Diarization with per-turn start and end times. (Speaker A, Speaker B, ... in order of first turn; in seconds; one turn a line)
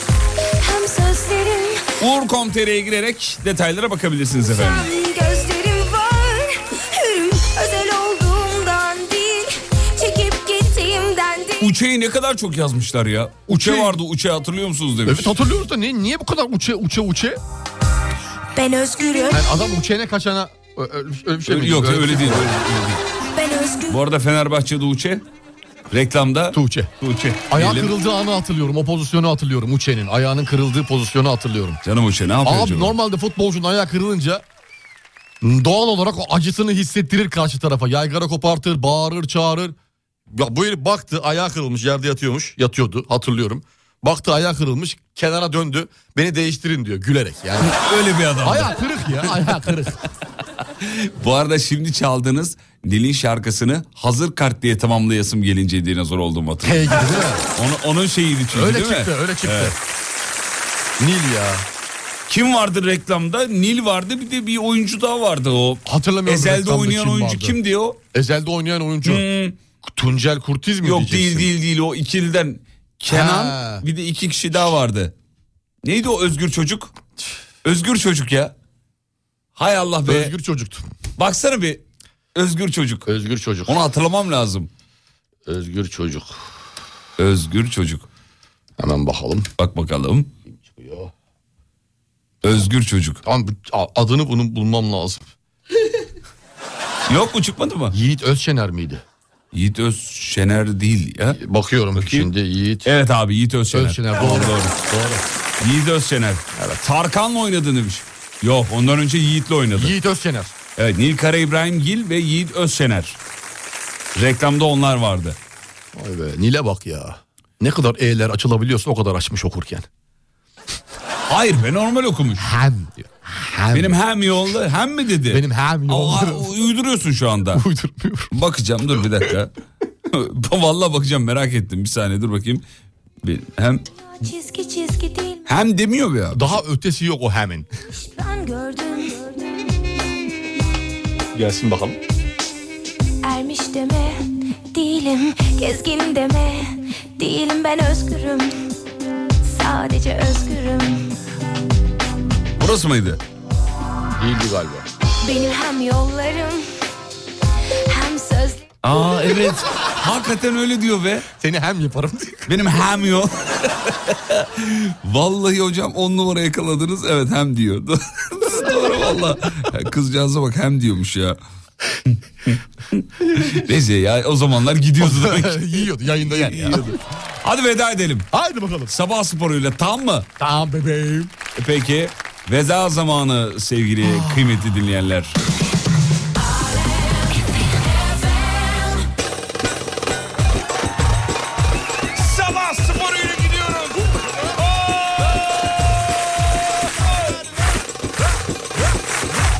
Speaker A: 0.6-1.8
Speaker B: 2.0-4.9
Speaker A: 4.5-11.7
Speaker B: 11.6-15.3
Speaker C: 13.5-14.0
Speaker C: 15.1-17.4
Speaker A: 18.5-19.5
Speaker C: 19.3-22.6
Speaker B: 21.4-23.0
Speaker A: 23.3-24.0
Speaker B: 23.9-25.2
Speaker B: 25.9-27.9
Speaker C: 26.5-26.9
Speaker C: 27.5-31.8
Speaker B: 31.8-32.9
Speaker C: 32.4-34.4
Speaker C: 35.4-39.7
Speaker C: 40.3-47.7
Speaker B: 47.6-49.7
Speaker C: 48.4-50.0
Speaker B: 50.8-59.7
Speaker C: 56.6-57.4
Speaker C: 58.5-59.8
Speaker C: 61.0-61.6
Speaker B: 62.3-68.0
Speaker C: 65.8-67.6
Speaker C: 68.1-69.2
Speaker B: 69.0-69.6
Speaker C: 69.9-71.5
Speaker B: 70.8-75.1
Speaker C: 73.1-73.8
Speaker B: 75.8-76.9
Speaker B: 77.6-78.5
Speaker B: 79.5-80.3
Speaker C: 80.0-80.8
Speaker B: 81.2-81.8
Speaker B: 82.3-83.1
Speaker C: 83.1-83.8
Speaker B: 83.7-84.7
Speaker C: 85.5-86.3
Speaker B: 87.2-88.1
Speaker C: 88.8-89.5
Speaker B: 89.6-90.3
Speaker C: 90.6-91.1
Speaker B: 92.4-93.2
Speaker C: 93.2-95.2
Speaker B: 97.1-97.9
Speaker C: 97.9-99.0
Speaker B: 99.5-101.4
Speaker C: 101.4-102.9
Speaker B: 102.0-102.3
Speaker B: 102.8-104.7
Speaker C: 103.7-105.2
Speaker B: 105.6-110.0
Speaker C: 109.7-110.5
Speaker B: 110.8-113.2
Speaker B: 114.1-115.4
Speaker C: 115.9-119.9
Speaker B: 121.3-122.5
Speaker C: 122.4-124.0
Speaker B: 123.7-127.6
Speaker C: 125.3-126.5
Speaker C: 127.5-128.3
Speaker B: 128.3-129.5
Speaker B: 130.1-132.6
Speaker B: 133.2-133.8
Speaker A: 134.2-135.5
Speaker B: 135.5-136.5
Speaker C: 136.3-137.7
Speaker A: 137.9-139.9
Speaker C: 141.3-142.0
Speaker A: 143.2-148.6
Speaker A: 149.4-151.1
Speaker B: 152.6-153.2
Speaker C: 154.2-154.8
Speaker A: 155.2-156.7
Speaker A: 157.9-158.7
Speaker B: 158.8-161.2
Speaker C: 161.4-162.4
Speaker B: 162.5-171.4
Speaker B: 172.1-178.3
Speaker C: 175.0-176.9
Speaker C: 178.3-178.9
Speaker B: 178.9-180.3
Speaker C: 180.4-181.3
Speaker B: 181.5-185.4
Speaker C: 184.0-184.4
Speaker B: 192.1-197.4